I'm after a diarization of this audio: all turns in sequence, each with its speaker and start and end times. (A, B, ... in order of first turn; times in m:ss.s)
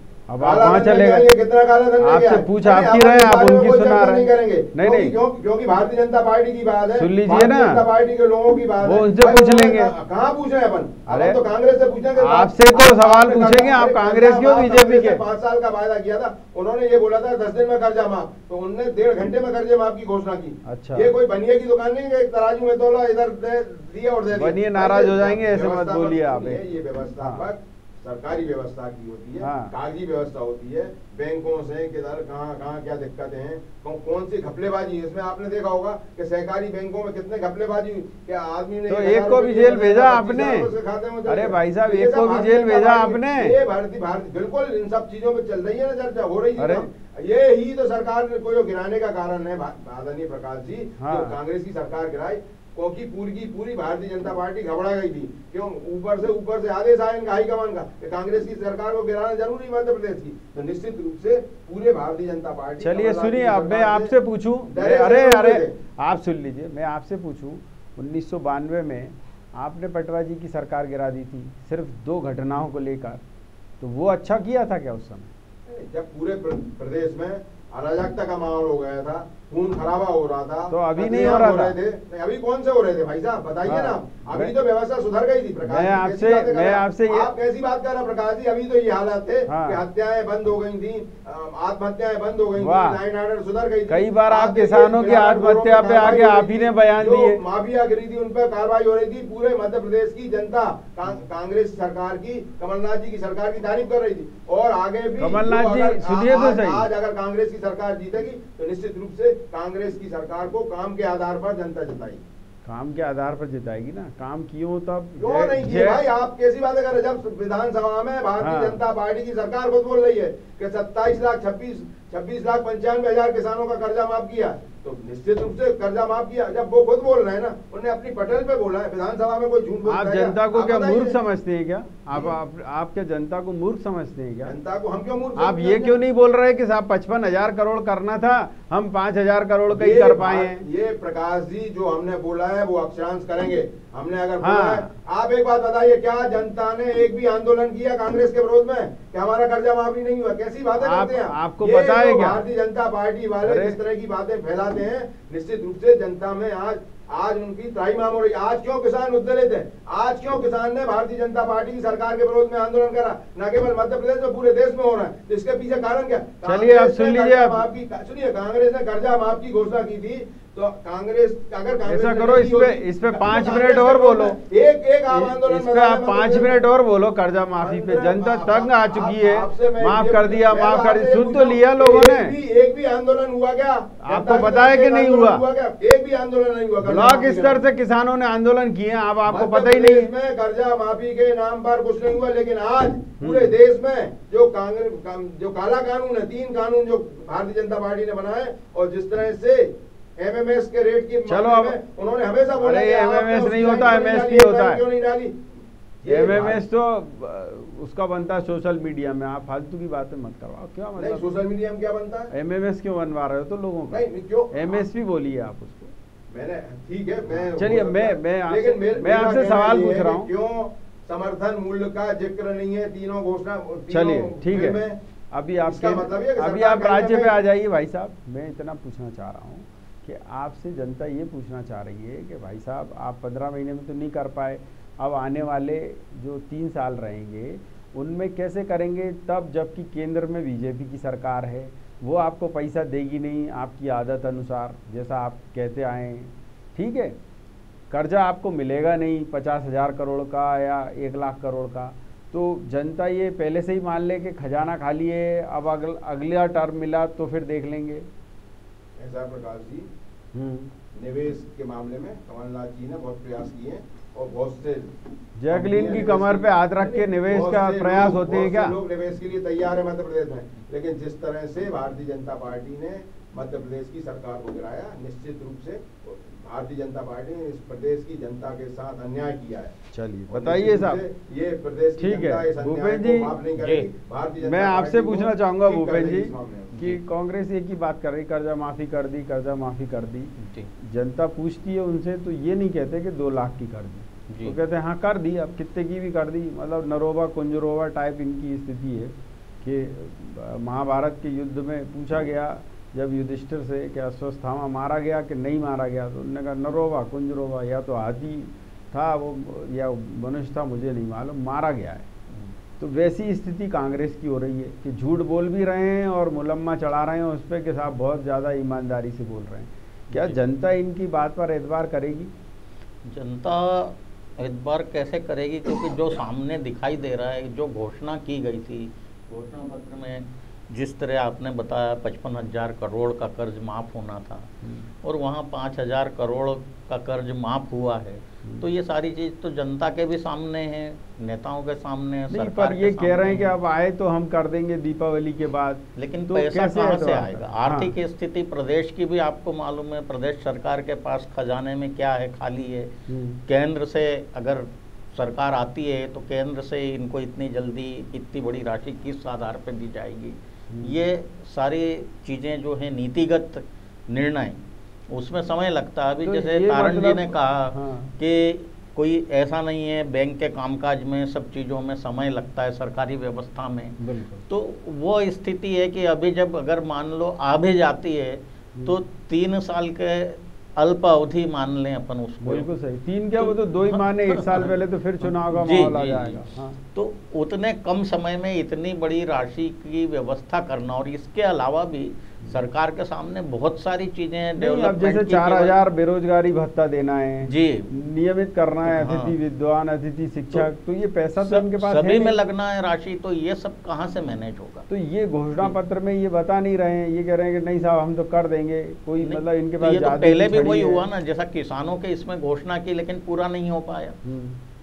0:00.3-0:01.3 A
0:00.4-1:04.1 B
0:02.0-0:05.2 A
0:06.9-0:07.8 A
0:08.8-0:10.0 A
0:11.1-0:11.4 A
0:12.2-0:15.2 A
0:20.6-0:21.1 A
0:24.3-0:26.7 A
0:27.2-0:27.5 A
0:29.4-0:29.7 A
0:38.9-0:40.7 A
0:41.3-0:43.6 A
0:46.6-0:46.9 A
0:51.0-0:51.4 A
1:02.8-1:13.2 A
1:04.7-1:05.7 B
1:13.8-1:15.3 A
1:15.7-1:52.2 B
1:20.7-1:21.8 A
1:23.6-1:24.5 A
1:25.7-1:27.3 A
1:29.5-1:29.8 A
1:32.6-1:33.0 A
1:33.9-1:37.4 A
1:45.2-1:46.9 A
1:52.6-1:56.0 A
1:55.2-2:11.2 B
1:58.4-1:58.8 A
2:09.9-2:14.6 A
2:12.1-2:12.4 B
2:14.4-2:16.0 B
2:15.4-2:20.6 A
2:19.7-2:56.6 B
2:24.4-2:24.9 A
2:30.8-2:32.4 A
2:33.4-2:33.8 A
2:46.4-2:47.7 A
2:51.8-2:54.4 A
2:55.1-3:02.4 A
2:57.6-3:07.6 B
3:04.0-3:05.5 A
3:06.8-3:10.1 A
3:09.3-3:25.4 B
3:13.2-3:13.5 A
3:21.3-3:21.8 A
3:22.6-3:24.8 A
3:26.0-3:26.6 B
3:26.1-3:31.2 A
3:31.0-3:32.3 B
3:32.3-3:35.9 A
3:33.9-3:34.8 B
3:36.3-3:45.0 B
3:37.5-3:40.3 A
3:43.9-3:44.8 A
3:45.3-4:07.2 A
3:45.7-3:47.4 B
4:07.9-4:18.1 A
4:19.0-4:19.9 B
4:20.3-4:20.7 A
4:20.9-4:24.9 B
4:25.4-4:28.8 A
4:25.5-4:39.8 B
4:39.9-4:41.0 A
4:40.3-4:46.8 B
4:42.0-4:43.4 A
4:43.6-4:43.9 C
4:44.4-5:12.1 A
4:46.7-4:47.0 C
4:50.4-4:50.7 C
4:54.3-4:54.6 C
5:12.8-5:22.3 A
5:20.1-5:20.4 C
5:23.0-5:34.5 C
5:34.6-5:34.9 A
5:35.0-5:43.6 C
5:42.3-5:47.9 A
5:46.0-5:52.9 C
5:53.1-5:53.4 A
5:53.4-6:22.7 C
6:00.7-6:01.0 A
6:06.2-6:08.1 A
6:14.0-6:14.4 A
6:22.4-6:26.8 A
6:23.4-6:35.8 C
6:34.6-6:42.4 A
6:37.4-6:37.9 C
6:38.8-6:39.3 C
6:41.4-6:44.9 C
6:44.9-6:51.0 A
6:49.2-6:54.2 C
6:54.2-6:54.6 A